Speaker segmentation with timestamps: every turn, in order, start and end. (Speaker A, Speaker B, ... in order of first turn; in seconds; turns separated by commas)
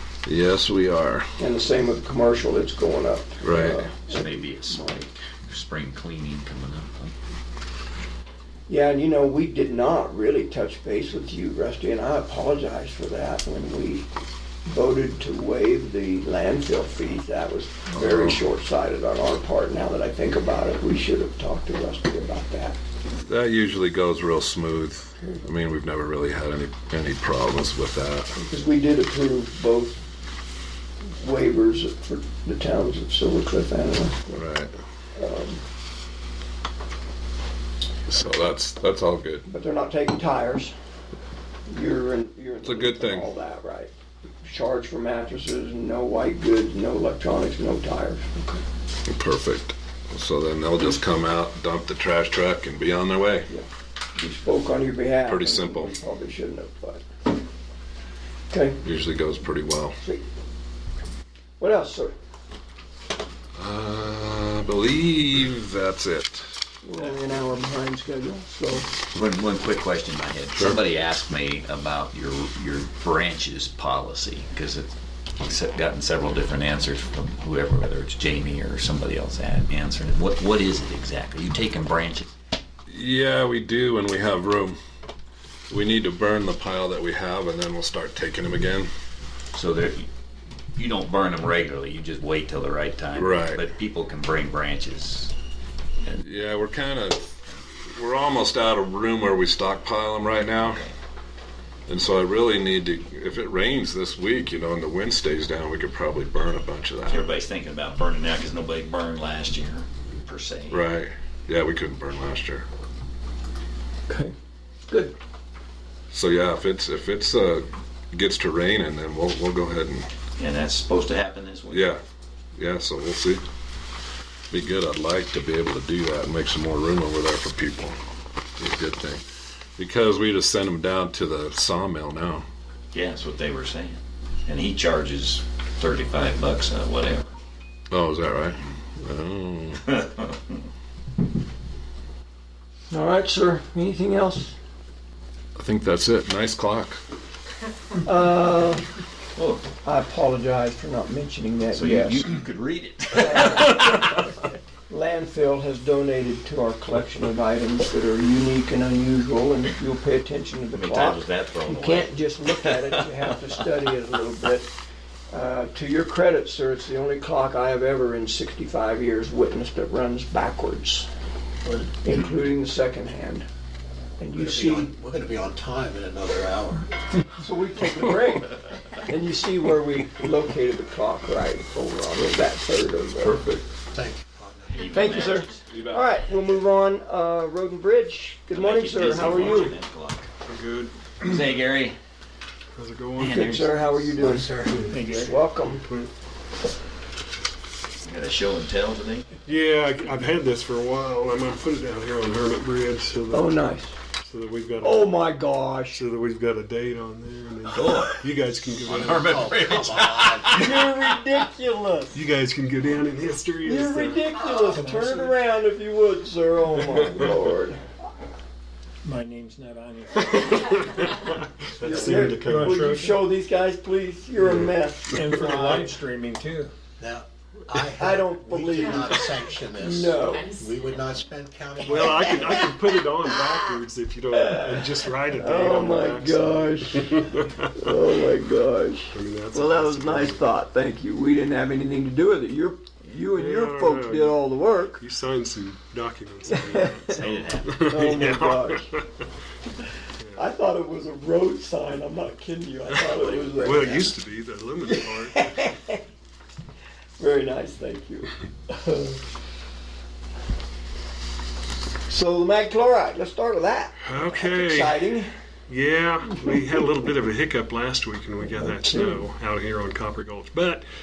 Speaker A: 0.3-1.3, Speaker B: 1.4-5.0, Speaker A: 3.4-3.8, Speaker C: 4.1-7.1, Speaker B: 8.7-14.1, Speaker B: 14.7-22.8, Speaker A: 17.9-18.4, Speaker A: 23.2-28.4, Speaker B: 28.4-30.0, Speaker B: 31.2-34.4, Speaker A: 34.3-34.7, Speaker B: 35.2-35.6, Speaker A: 38.1-39.5, Speaker B: 39.5-40.7, Speaker B: 41.7-43.9, Speaker A: 42.6-43.3, Speaker B: 44.4-48.6, Speaker A: 49.1-53.5, Speaker B: 53.5-57.0, Speaker A: 55.3-56.0, Speaker B: 58.5-58.8, Speaker A: 58.8-60.0, Speaker B: 61.6-62.1, Speaker A: 63.6-66.6, Speaker B: 66.8-68.9, Speaker C: 69.1-82.3, Speaker A: 70.5-70.8, Speaker A: 82.9-84.8, Speaker A: 85.7-88.9, Speaker C: 89.5-90.1, Speaker C: 90.8-95.3, Speaker A: 93.2-93.6, Speaker A: 96.2-97.3, Speaker A: 97.9-100.8, Speaker C: 100.4-101.0, Speaker A: 101.9-107.4, Speaker C: 107.1-110.8, Speaker A: 110.7-112.7, Speaker B: 114.1-114.3, Speaker B: 114.9-115.2, Speaker A: 116.1-120.1, Speaker C: 120.4-121.9, Speaker A: 121.7-122.0, Speaker A: 122.6-123.4, Speaker A: 124.5-128.0, Speaker A: 128.6-129.2, Speaker A: 129.8-132.4, Speaker C: 132.9-137.3, Speaker A: 137.9-139.9, Speaker B: 142.9-144.6, Speaker A: 145.6-147.0, Speaker B: 148.0-148.8, Speaker C: 149.4-149.6, Speaker B: 149.8-152.3, Speaker C: 151.7-154.3, Speaker B: 153.2-154.2, Speaker B: 154.9-164.7, Speaker C: 160.7-163.3, Speaker B: 165.3-171.1, Speaker B: 172.0-173.5, Speaker B: 174.2-174.9, Speaker D: 174.3-176.9, Speaker B: 177.3-183.4, Speaker A: 183.2-183.6, Speaker D: 183.9-185.2, Speaker C: 184.7-185.7, Speaker B: 184.8-189.8, Speaker A: 185.7-186.1, Speaker C: 188.5-190.3, Speaker E: 190.5-191.4, Speaker C: 191.2-192.0, Speaker E: 192.8-193.6, Speaker C: 193.2-194.1, Speaker B: 193.2-195.8, Speaker D: 194.1-194.9, Speaker E: 194.7-195.0, Speaker F: 194.8-195.5, Speaker E: 195.7-196.1, Speaker C: 198.0-199.3, Speaker E: 199.5-203.7, Speaker B: 203.3-203.9, Speaker E: 204.2-205.3, Speaker B: 204.8-206.0, Speaker E: 205.9-209.6, Speaker C: 207.7-208.2, Speaker D: 208.8-210.6, Speaker C: 208.8-211.1, Speaker B: 210.5-212.2, Speaker E: 212.1-214.3, Speaker B: 213.7-217.8, Speaker F: 214.7-215.4, Speaker F: 219.0-220.4, Speaker E: 220.2-223.2, Speaker B: 221.8-225.8, Speaker F: 222.1-223.1, Speaker E: 224.4-225.2, Speaker F: 225.1-226.7, Speaker D: 225.3-225.9, Speaker D: 227.0-232.7, Speaker B: 228.0-229.2, Speaker B: 229.8-230.6, Speaker E: 231.8-237.7, Speaker B: 232.0-232.3, Speaker B: 234.3-237.2, Speaker B: 237.7-245.0, Speaker E: 239.1-240.4, Speaker E: 243.3-244.4, Speaker E: 245.0-249.1, Speaker B: 246.6-246.9, Speaker C: 247.1-247.9, Speaker B: 247.8-248.9, Speaker B: 250.4-254.1, Speaker E: 253.0-255.7, Speaker B: 254.9-256.0, Speaker B: 257.2-259.2, Speaker B: 262.1-265.3, Speaker E: 264.0-265.0, Speaker E: 265.7-270.8, Speaker B: 268.6-269.2